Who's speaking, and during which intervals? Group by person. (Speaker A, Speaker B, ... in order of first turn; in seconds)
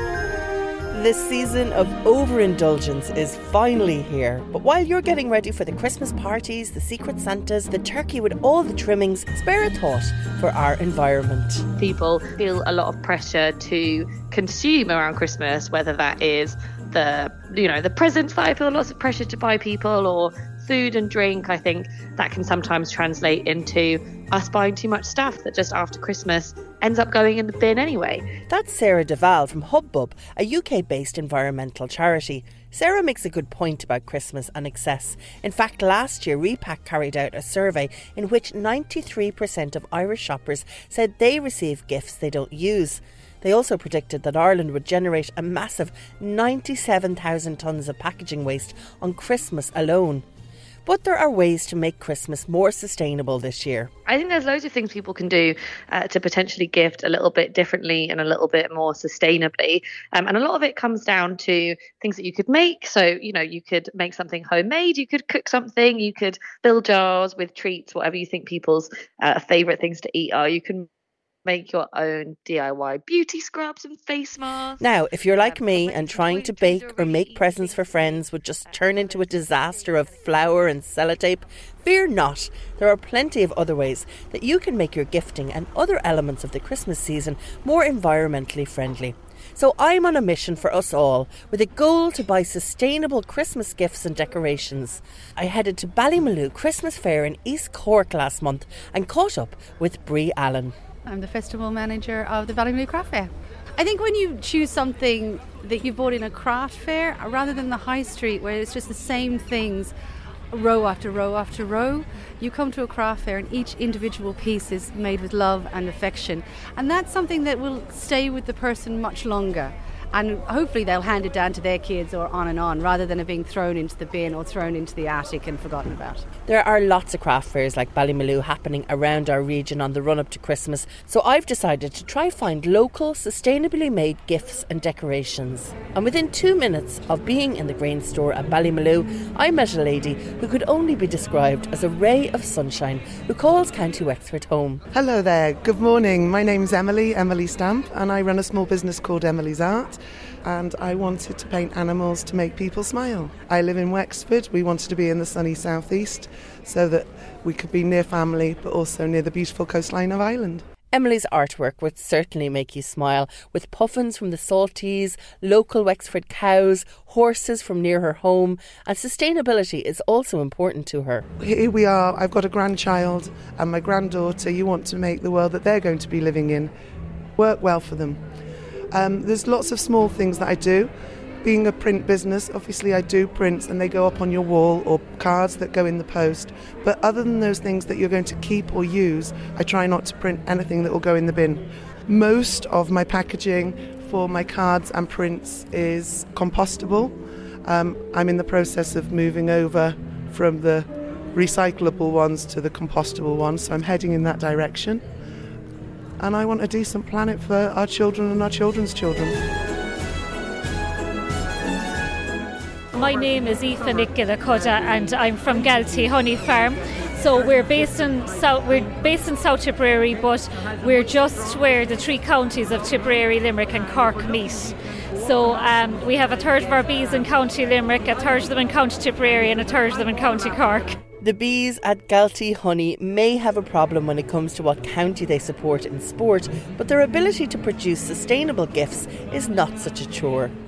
Speaker A: 0.9-11.7, 28.5-50.2, 50.8-53.9, 74.8-100.7, 126.5-144.8, 160.9-171.2, 231.2-240.5
Speaker B: 11.8-28.2, 54.1-70.9, 71.5-78.2
Speaker C: 101.0-109.9, 110.5-126.2
Speaker D: 144.9-160.6, 171.4-176.7, 177.4-178.2, 178.9-180.9, 181.4-197.1, 197.6-205.0, 206.2-209.4
Speaker E: 212.9-230.9